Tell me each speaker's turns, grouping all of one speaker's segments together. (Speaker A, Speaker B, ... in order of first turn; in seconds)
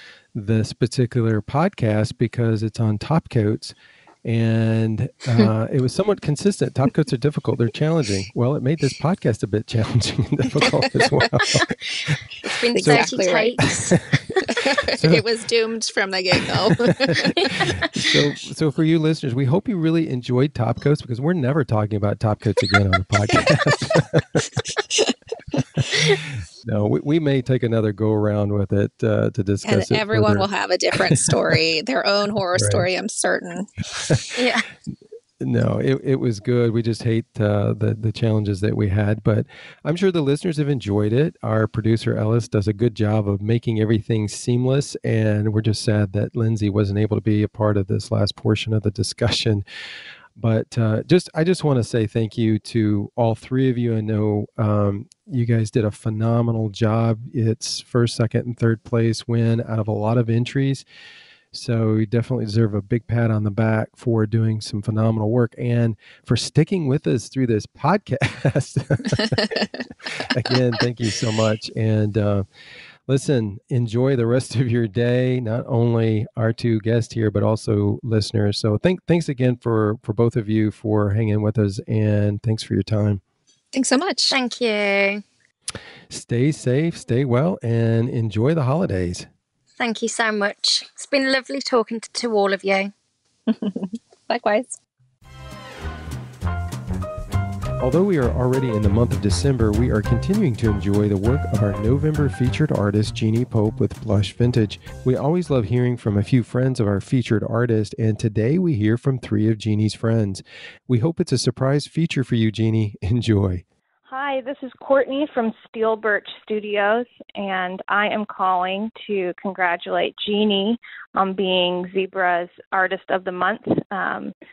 Speaker A: 0.3-11.8, 12.8-13.1, 13.7-14.0, 15.0-15.2, 17.1-24.5, 25.8-30.5, 32.5-32.9, 35.4-49.6, 50.4-60.8, 61.5-69.6, 70.2-72.4, 73.1-83.2, 86.1-89.3, 97.8-113.6
Speaker B: 10.6-11.5, 12.7-13.6, 14.5-18.2, 24.9-25.9, 29.6-34.1, 69.1-69.9, 83.7-84.3, 93.5-94.8
Speaker C: 12.4-14.5, 17.4-17.9, 34.3-34.6, 84.3-85.2, 89.8-92.9
Speaker D: 114.1-124.3